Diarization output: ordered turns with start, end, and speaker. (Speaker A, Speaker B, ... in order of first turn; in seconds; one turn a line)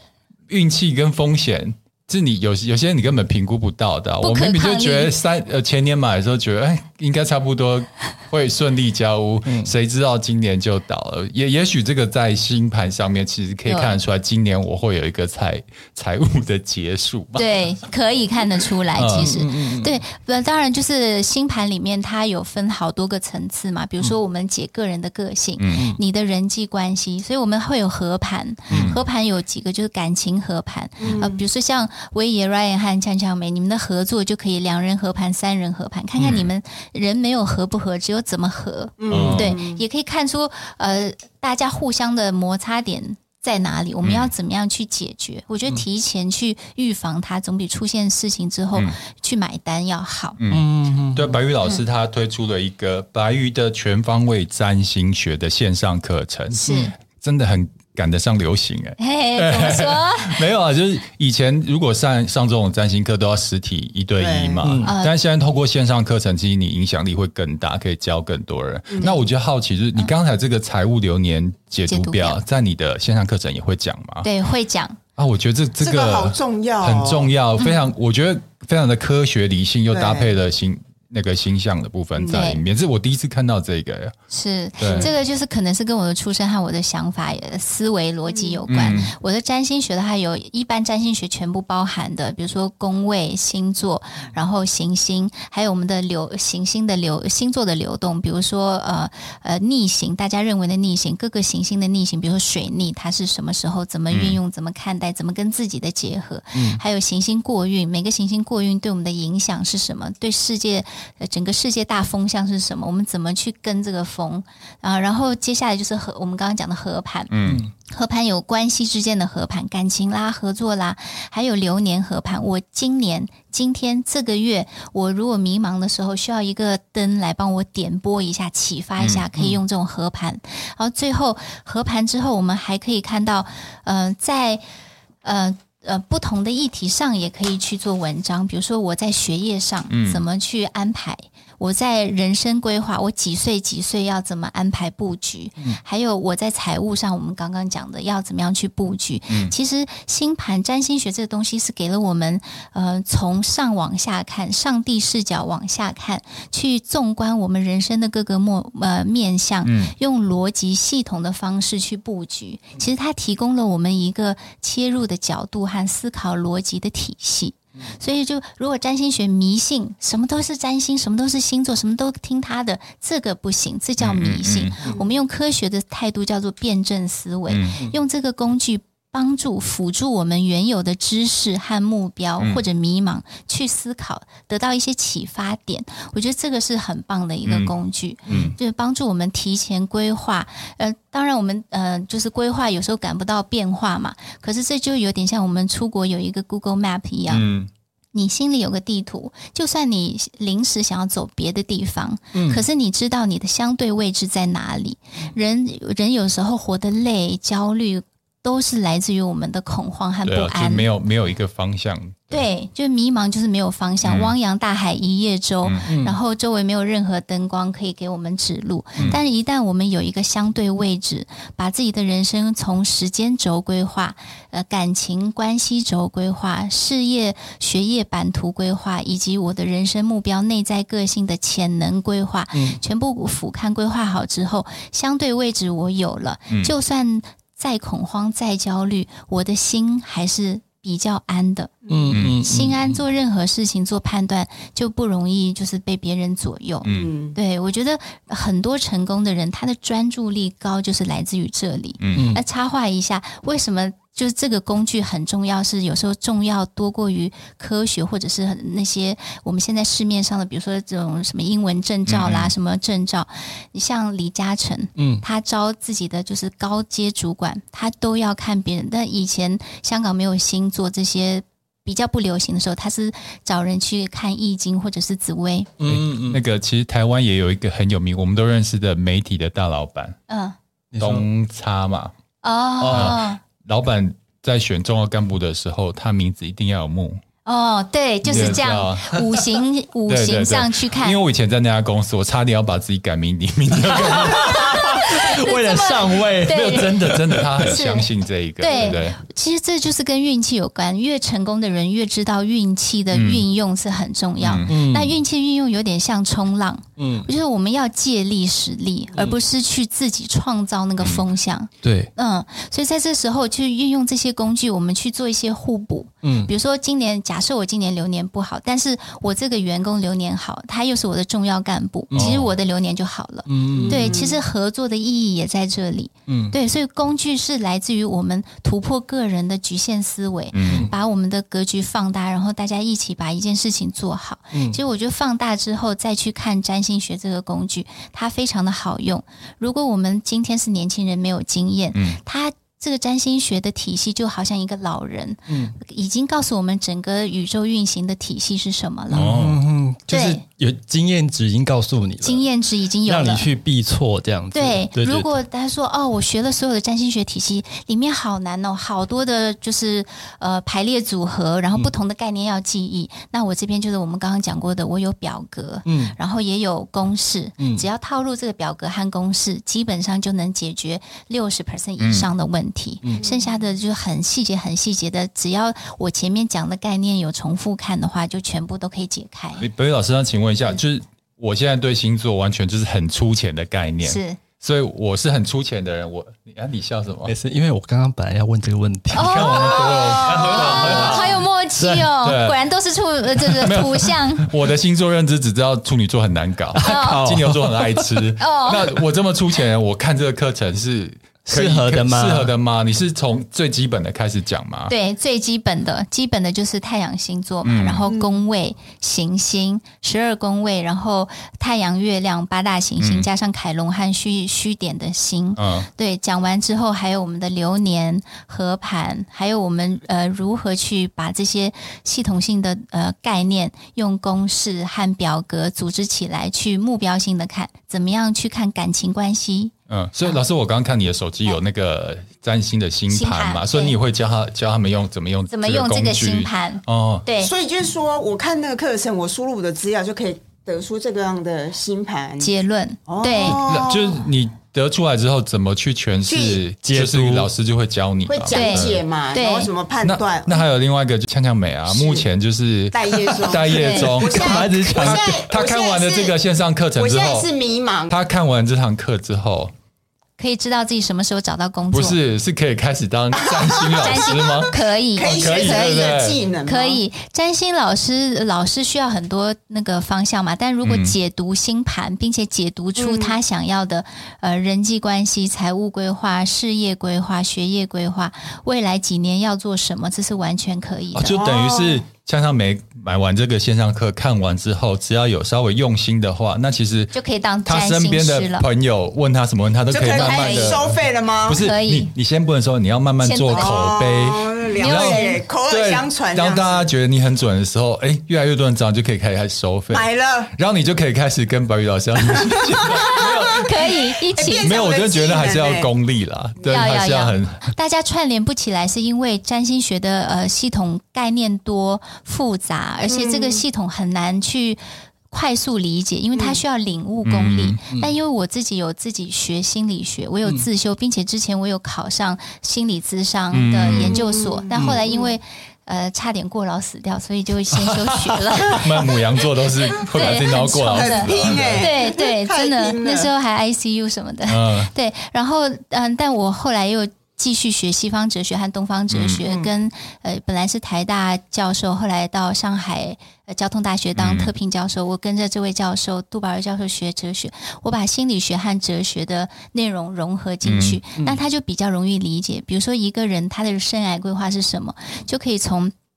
Speaker A: 0.5-17.5
Speaker B: 4.2-5.2
Speaker C: 9.5-9.7
Speaker B: 13.7-14.0
Speaker B: 17.4-50.4
Speaker A: 18.9-19.4
Speaker C: 19.2-20.0
Speaker A: 25.6-25.9
Speaker A: 28.7-29.0
Speaker D: 31.0-31.4
Speaker A: 36.2-36.5
Speaker D: 39.0-39.8
Speaker A: 39.1-39.6
Speaker A: 44.0-44.3
Speaker A: 50.4-74.3
Speaker C: 50.5-51.4
Speaker B: 56.6-56.9
Speaker B: 59.0-60.4
Speaker D: 64.2-64.7
Speaker C: 64.6-64.9
Speaker B: 64.8-65.2
Speaker D: 68.9-69.2
Speaker B: 71.9-72.4
Speaker B: 74.2-75.0
Speaker A: 75.2-84.1
Speaker D: 75.8-77.3
Speaker D: 79.9-80.3
Speaker B: 82.2-82.6
Speaker B: 84.3-117.3
Speaker A: 84.8-85.1
Speaker D: 88.3-88.6
Speaker A: 88.7-89.1
Speaker A: 104.1-104.4
Speaker C: 106.5-106.8
Speaker A: 117.3-117.7
Speaker C: 117.5-117.7
Speaker B: 117.9-134.6
Speaker A: 129.0-129.3
Speaker B: 135.2-197.5
Speaker A: 139.9-140.2
Speaker A: 159.6-159.9
Speaker A: 174.0-174.8
Speaker A: 177.5-177.8
Speaker A: 187.5-187.7
Speaker A: 188.3-188.6
Speaker A: 197.3-197.7
Speaker B: 198.1-210.9
Speaker C: 202.3-202.6
Speaker A: 210.2-212.5
Speaker B: 212.3-275.7
Speaker A: 214.0-214.3
Speaker C: 215.9-216.2
Speaker C: 232.5-232.8
Speaker D: 241.9-242.2
Speaker C: 241.9-242.7
Speaker A: 242.1-242.5
Speaker A: 246.8-247.1
Speaker D: 246.9-247.4
Speaker A: 252.0-252.3
Speaker C: 252.2-252.4
Speaker A: 262.1-262.5
Speaker C: 265.0-265.2
Speaker C: 275.8-276.4
Speaker A: 275.9-280.2
Speaker B: 280.3-280.6
Speaker C: 280.9-281.3
Speaker A: 281.0-282.1
Speaker B: 282.4-283.4
Speaker C: 282.8-283.2
Speaker A: 282.9-287.2
Speaker B: 287.4-291.2
Speaker A: 288.2-289.4
Speaker A: 290.1-294.8
Speaker C: 294.0-297.8
Speaker B: 294.3-349.3
Speaker A: 296.4-299.2
Speaker A: 303.1-303.5
Speaker A: 304.4-304.8
Speaker C: 304.7-305.2
Speaker C: 307.0-307.3
Speaker C: 311.8-312.1
Speaker C: 316.2-316.5
Speaker C: 322.1-322.4
Speaker A: 322.1-322.5
Speaker C: 323.5-324.2
Speaker D: 323.7-324.4
Speaker C: 326.3-326.5
Speaker A: 330.5-330.9
Speaker C: 334.5-334.8
Speaker A: 341.9-342.2
Speaker C: 345.5-345.8
Speaker A: 349.1-349.6
Speaker C: 349.1-352.5
Speaker B: 350.1-350.4
Speaker B: 352.2-353.5
Speaker C: 353.1-355.3
Speaker B: 354.5-379.7
Speaker C: 365.9-366.1
Speaker A: 372.0-372.3
Speaker D: 373.1-373.5
Speaker A: 379.6-387.3
Speaker B: 384.0-384.4
Speaker C: 387.2-392.1
Speaker B: 389.1-394.5
Speaker A: 389.1-391.4
Speaker A: 392.2-392.6
Speaker A: 393.6-404.9
Speaker C: 396.8-398.2
Speaker B: 396.8-397.2
Speaker B: 398.4-399.0
Speaker C: 401.5-402.5
Speaker B: 404.9-429.7
Speaker A: 407.6-408.1
Speaker D: 408.1-408.4
Speaker A: 413.0-413.3
Speaker A: 415.6-415.9
Speaker A: 429.9-437.3
Speaker B: 433.1-433.9
Speaker B: 435.5-437.5
Speaker D: 437.4-442.5
Speaker B: 442.4-443.7
Speaker D: 443.1-444.2
Speaker A: 443.4-449.0
Speaker D: 446.3-446.6
Speaker C: 446.8-447.5
Speaker D: 448.3-450.6
Speaker B: 448.5-449.7
Speaker A: 450.0-457.5
Speaker D: 451.9-452.3
Speaker D: 452.9-456.4
Speaker B: 453.6-454.2
Speaker C: 454.1-455.5
Speaker D: 457.0-458.1
Speaker A: 458.1-459.7
Speaker B: 460.4-462.2
Speaker A: 461.9-466.4
Speaker D: 463.4-464.1
Speaker B: 464.0-465.9
Speaker D: 465.2-467.0
Speaker B: 466.6-481.4
Speaker A: 470.8-471.1
Speaker D: 473.0-473.4
Speaker A: 481.1-503.9
Speaker D: 481.3-482.0
Speaker B: 487.1-488.7
Speaker D: 489.9-491.6
Speaker B: 490.1-490.8
Speaker B: 491.5-492.1
Speaker B: 493.2-494.0
Speaker D: 493.5-496.9
Speaker B: 494.8-495.4
Speaker D: 499.9-500.5
Speaker D: 502.4-505.9
Speaker B: 503.5-504.7
Speaker A: 504.6-507.7
Speaker B: 506.7-529.2
Speaker D: 513.1-513.6
Speaker D: 516.3-516.6
Speaker A: 517.2-517.8
Speaker A: 523.5-524.2
Speaker D: 523.9-525.3
Speaker C: 524.7-525.0
Speaker A: 528.5-531.9
Speaker B: 529.9-555.9
Speaker D: 530.9-533.3
Speaker A: 534.5-534.9
Speaker A: 539.1-539.5
Speaker D: 539.4-539.7
Speaker A: 544.2-544.5
Speaker A: 550.6-551.0